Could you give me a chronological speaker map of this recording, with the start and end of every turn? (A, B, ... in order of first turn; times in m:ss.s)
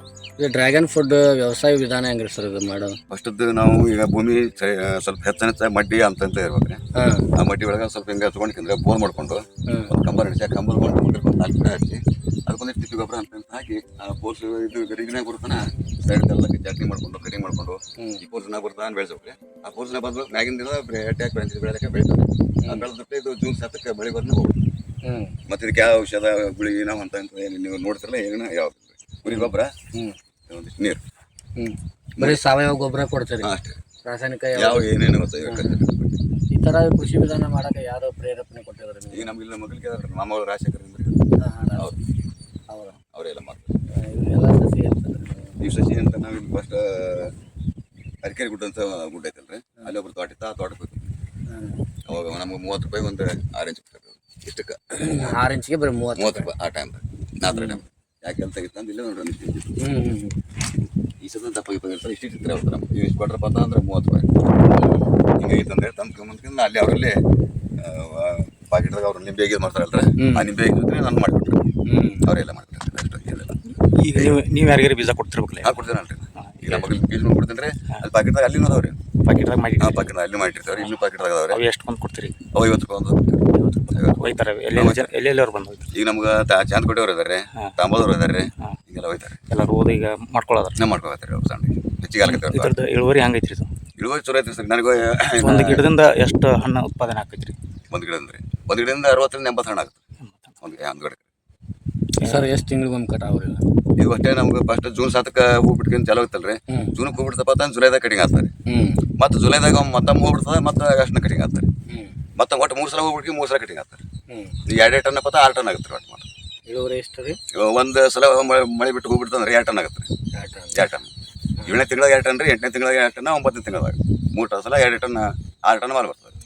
0:00.4-0:03.0 A
0:03.1-0:06.8 B
0:07.0-0:07.3 A
0:07.4-0:24.6 B
0:09.7-0:09.9 A
0:25.0-0:25.4 A
0:25.5-0:29.7 B
0:29.3-0:30.2 A
0:30.5-0:31.0 B
0:31.6-0:33.5 A
0:33.4-0:33.8 B
0:34.0-0:34.9 A
0:34.5-0:36.2 B
0:35.4-0:35.8 A
0:36.5-0:39.3 A
0:39.1-0:42.0 B
0:41.4-0:41.9 A
0:42.7-0:43.0 A
0:43.1-0:43.8 B
0:43.9-0:45.6 A
0:45.6-0:47.3 B
0:48.2-0:51.1 B
0:51.5-0:51.8 A
0:52.1-0:55.4 B
0:54.9-0:56.5 A
0:56.2-0:59.8 B
0:57.5-0:57.8 A
0:59.8-1:00.4 A
1:01.2-1:04.3 B
1:04.7-1:05.1 A
1:05.4-1:07.2 B
1:07.8-1:11.7 B
1:10.2-1:10.5 A
1:11.9-1:12.3 A
1:12.2-1:13.6 B
1:13.9-1:15.8 C
1:15.6-1:19.0 B
1:16.4-1:17.0 C
1:19.2-1:20.1 C
1:19.8-1:21.6 B
1:20.7-1:22.4 C
1:22.5-1:25.1 B
1:23.5-1:25.9 C
1:25.9-1:29.4 B
1:29.5-1:30.8 C
1:30.8-1:32.8 B
1:32.2-1:33.7 C
1:34.0-1:35.9 B
1:35.4-1:37.6 C
1:37.9-1:40.0 B
1:40.2-1:40.5 C
1:40.6-1:41.2 B
1:42.2-1:42.5 C
1:42.2-1:43.6 A
1:44.0-1:48.5 B
1:48.7-1:49.0 A
1:49.2-1:51.7 B
1:51.9-1:52.2 A
1:52.4-1:54.0 B
1:54.3-1:54.6 A
1:54.7-1:56.3 B
1:56.7-1:57.4 A
1:57.5-2:00.1 B
2:00.3-2:00.8 A
2:00.7-2:01.1 B
2:01.6-2:06.3 B